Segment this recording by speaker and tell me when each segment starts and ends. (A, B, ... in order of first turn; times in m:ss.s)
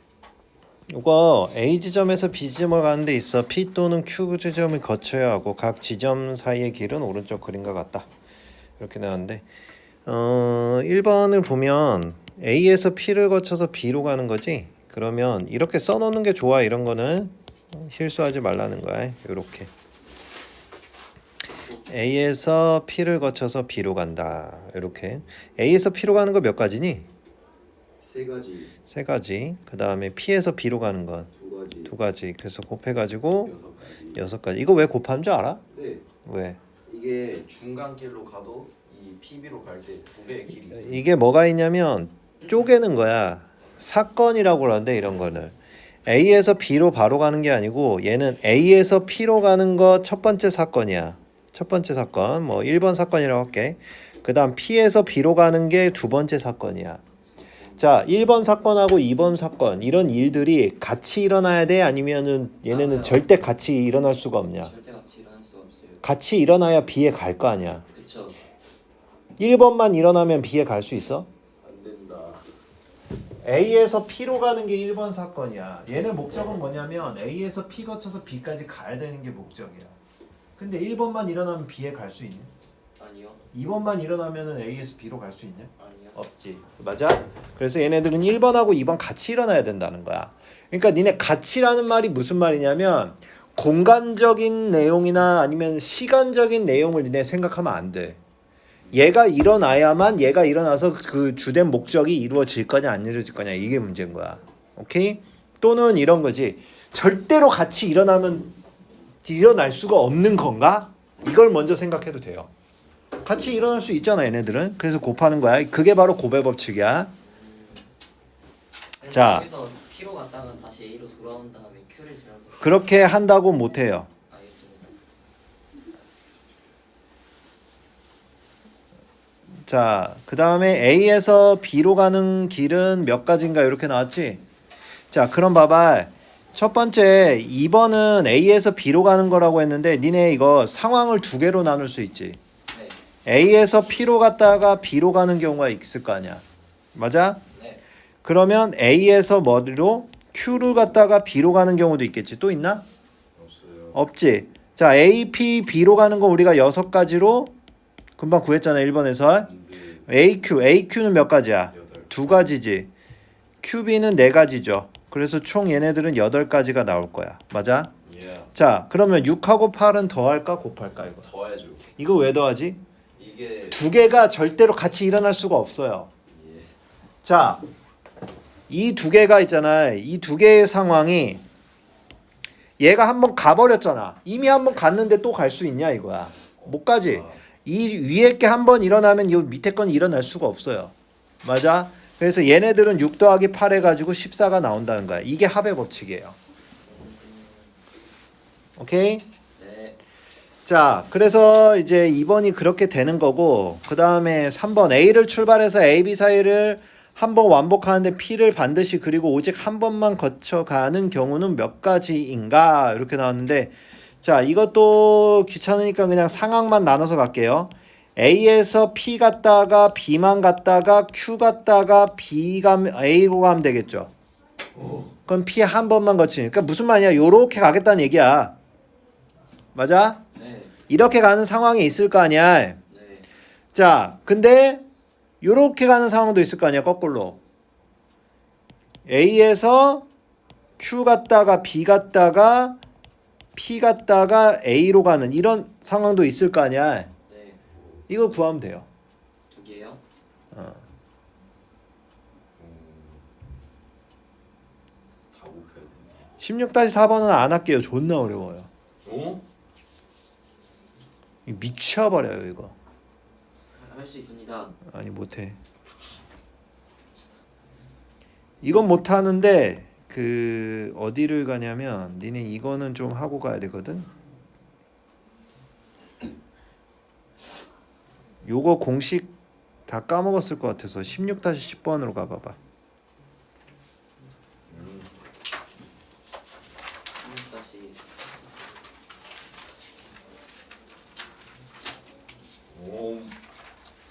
0:00.9-0:08.1 A
0:08.8-0:09.5 A
0:10.0-0:19.7 A
0:21.8-0:27.1 A
0:28.0-0:28.7 B
0:28.9-0:31.3 A
0:31.3-0:31.9 B
0:31.8-0:33.6 A
0:33.4-0:34.2 B
0:34.1-0:35.6 A
0:35.7-0:36.1 B
0:36.2-0:36.6 A
0:36.8-0:41.1 B
0:40.7-0:57.0 A
0:57.4-0:57.9 C
0:57.8-1:04.7 A
1:02.7-1:03.3 C
1:04.6-1:06.0 C
1:06.0-1:07.8 A
1:07.9-1:08.4 C
1:09.4-1:11.3 A
1:11.6-1:12.4 B
1:13.4-1:20.0 A
1:20.6-1:22.5 A
1:23.0-1:23.4 C
1:23.5-1:38.2 A
1:25.8-1:26.2 C
1:38.9-1:48.5 A
1:49.2-1:52.5 A
1:53.2-1:57.1 A
1:57.2-1:57.9 C
1:59.0-2:02.9 C
1:59.1-1:59.5 A
2:02.6-2:04.1 A
2:04.3-2:04.9 C
2:09.6-2:14.4 A
2:15.1-2:22.4 A
2:22.7-2:23.0 C
2:23.2-2:26.4 A
2:26.9-2:27.4 A
2:27.5-2:27.8 C
2:28.2-2:32.8 A
2:33.4-2:34.0 B
2:33.9-2:37.5 A
2:38.2-2:39.5 A
2:39.4-2:40.0 B
2:40.1-2:42.9 A
2:41.7-2:42.1 B
2:43.6-2:47.9 A
2:48.0-2:48.5 B
2:48.5-2:51.3 A
2:51.2-2:51.9 B
2:52.0-2:52.8 A
2:53.2-2:53.8 B
2:53.7-2:56.1 A
2:56.3-2:56.7 B
2:57.2-2:57.6 A
2:58.7-3:01.4 A
3:02.8-3:16.4 A
3:06.6-3:07.4 B
3:16.8-3:17.7 C
3:18.8-3:19.2 A
3:19.6-3:20.0 C
3:20.6-3:44.1 A
3:44.7-3:45.1 B
3:45.3-3:48.6 A
3:49.7-3:50.2 A
3:50.3-3:50.7 C
3:50.9-3:52.8 A
3:52.9-3:53.3 C
3:53.7-3:54.8 A
3:55.4-3:57.4 A
3:59.0-4:00.1 A
4:00.8-4:02.8 A
4:03.5-4:07.1 A
4:07.3-4:07.6 C
4:08.1-4:08.9 A
4:09.5-4:10.0 C
4:10.5-4:10.8 A
4:12.6-4:13.2 B
4:15.3-4:16.3 B
4:16.4-4:18.7 A
4:19.0-4:19.4 B
4:21.4-4:22.7 A
4:23.7-4:24.7 C
4:24.8-4:25.6 A
4:28.6-4:34.1 A
4:38.4-4:39.3 A
4:39.9-4:42.6 A
4:44.7-4:45.1 B
4:47.2-4:48.0 C
4:52.7-4:53.3 B